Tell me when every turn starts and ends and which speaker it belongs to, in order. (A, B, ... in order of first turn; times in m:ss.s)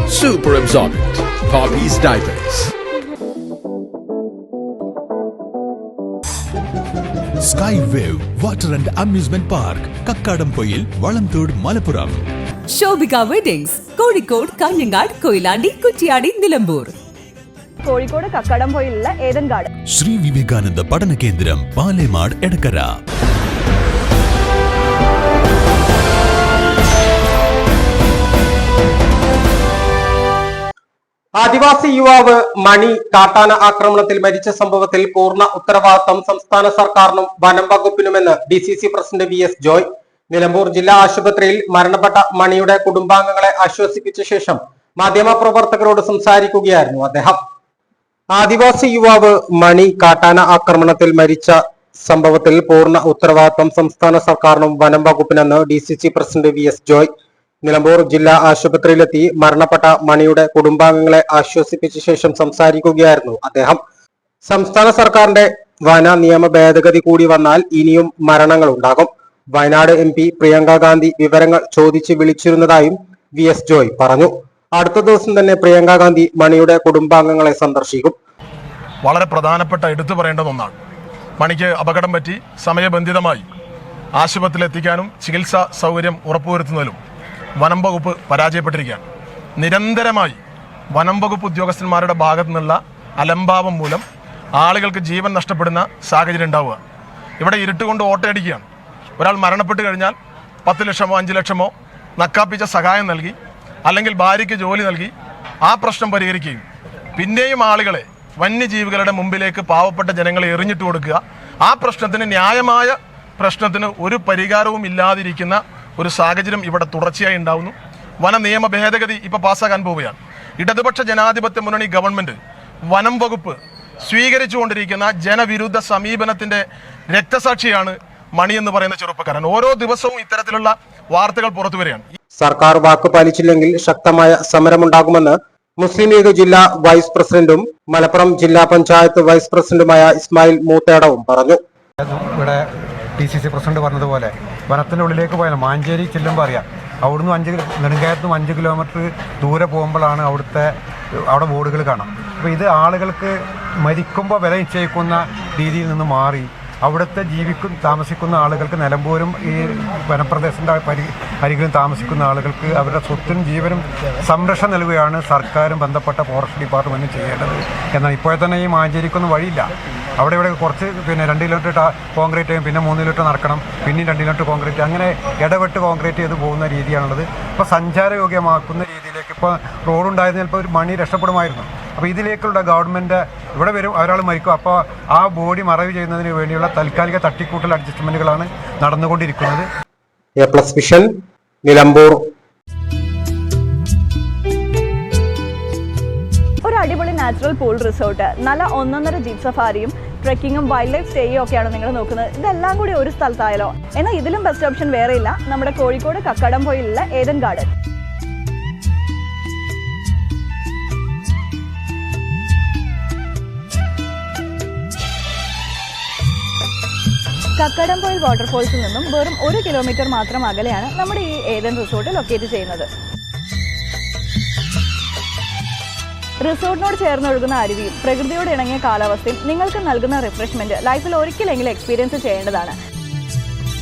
0:00.1-0:02.7 A
0:07.4-0:12.2 B
0:12.7-0:16.9 C
0:17.8-0:19.7 D
0:19.9-0:22.9 B
0:31.3-0:47.4 E
0:48.3-0:57.1 E
0:57.6-1:03.8 E
1:04.4-1:18.2 E
1:19.0-1:20.8 F
1:21.4-1:23.4 F
1:24.2-1:27.0 F
1:27.6-1:29.0 F
1:29.6-1:30.4 F
1:30.9-1:34.0 F
1:34.6-1:36.8 F
1:37.4-1:38.6 F
1:39.2-1:45.1 F
1:45.6-1:46.6 F
1:47.2-2:02.4 F
2:02.9-2:12.0 F
2:12.4-2:21.6 E
2:22.0-2:30.8 G
2:31.3-2:49.7 G
2:50.2-3:09.7 G
3:10.4-3:11.1 E
3:11.6-3:12.2 E
3:16.6-3:27.7 D
3:37.6-3:42.9 D
3:46.4-3:52.8 D